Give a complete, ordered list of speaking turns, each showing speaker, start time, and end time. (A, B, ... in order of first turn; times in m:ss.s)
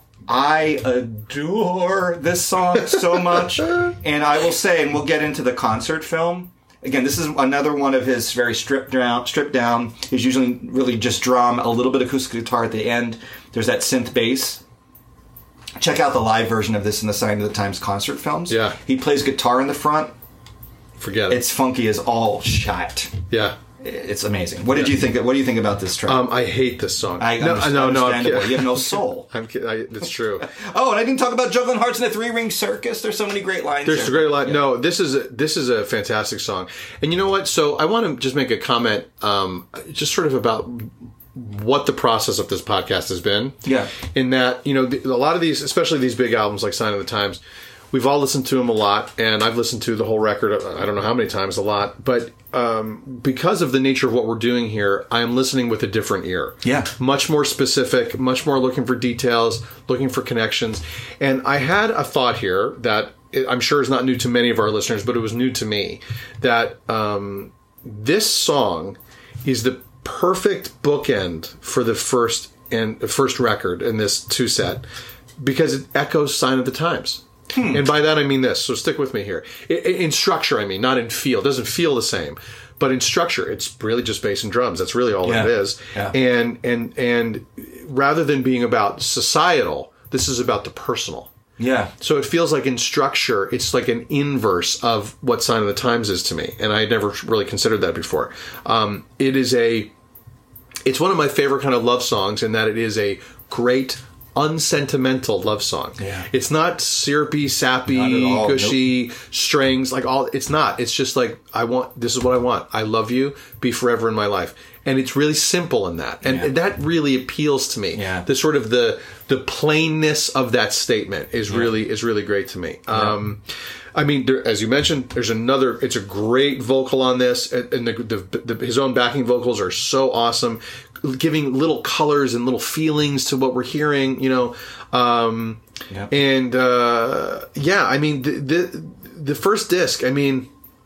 0:00.3-0:14.6 A
0:15.8-0:20.1 A
0:18.5-0:18.8 B
0:21.0-0:21.4 B
0:21.3-0:23.2 A
0:23.3-0:23.6 B
0:23.8-0:26.3 A
0:26.1-0:30.5 B
0:27.2-0:29.3 A
0:30.4-0:34.7 A
0:33.8-0:47.4 B
0:43.6-0:43.9 A
0:47.9-1:14.8 B
0:56.6-0:56.9 A
1:15.4-1:31.3 B
1:17.5-1:17.9 A
1:25.2-1:26.2 A
1:31.6-1:31.9 A
1:32.0-1:39.9 B
1:40.8-2:03.4 B
1:46.0-1:46.3 A
1:47.9-1:48.9 A
1:56.3-1:56.5 A
1:57.9-1:58.3 A
2:01.5-2:01.8 A
2:04.0-2:20.5 B